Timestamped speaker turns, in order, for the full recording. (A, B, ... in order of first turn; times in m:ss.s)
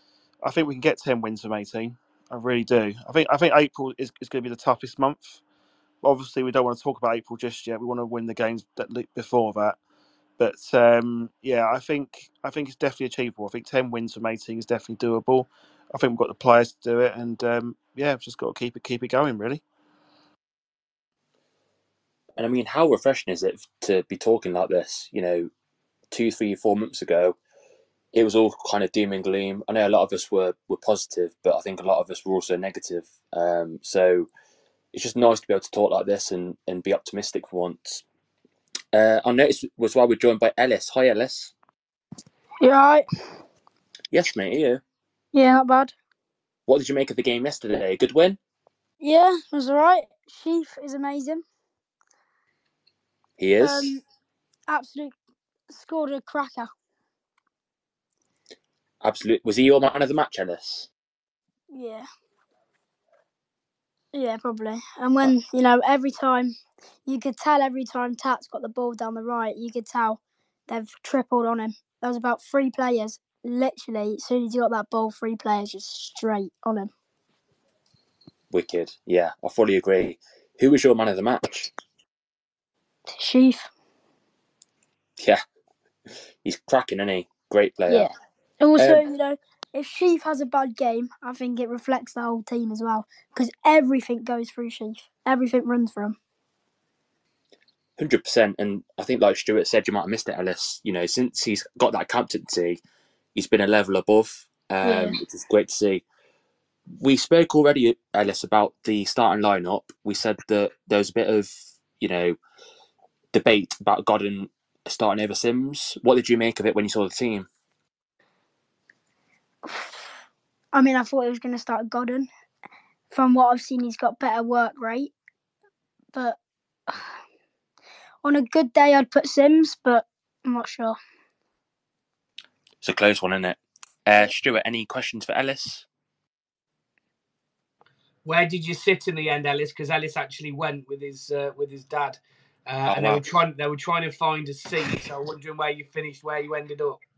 0:00.4-0:05.4 A
0:06.0-0:09.8 A
0:10.4-0:19.6 A
0:22.4-0:25.5 B
0:26.1-0:27.4 B
0:28.1-0:34.3 B
0:34.9-0:38.0 B
0:38.9-0:41.5 B
0:42.6-0:43.0 C
0:44.1-0:44.8 B
0:45.3-0:45.9 C
0:46.7-0:48.4 B
0:49.0-0:51.4 C
0:53.4-0:54.0 B
0:53.6-0:54.0 C
0:54.7-0:55.1 C
0:55.7-0:56.7 C
0:59.0-1:00.9 B
1:01.7-1:02.1 C
1:04.1-1:06.5 C
1:07.0-1:16.9 C
1:18.5-1:21.7 B
1:23.1-1:23.7 C
1:26.4-1:28.1 B
1:27.9-1:36.2 C
1:28.8-1:29.0 B
1:38.0-1:42.8 B
1:43.3-1:46.0 B
1:44.8-1:45.2 C
1:47.0-1:52.4 B
1:53.3-1:57.5 B
1:59.6-2:00.1 C
2:00.7-2:02.3 C
2:03.1-2:05.1 C
2:08.2-2:11.0 C
2:12.8-2:15.8 B
2:18.2-2:27.0 D
2:22.9-2:23.2 B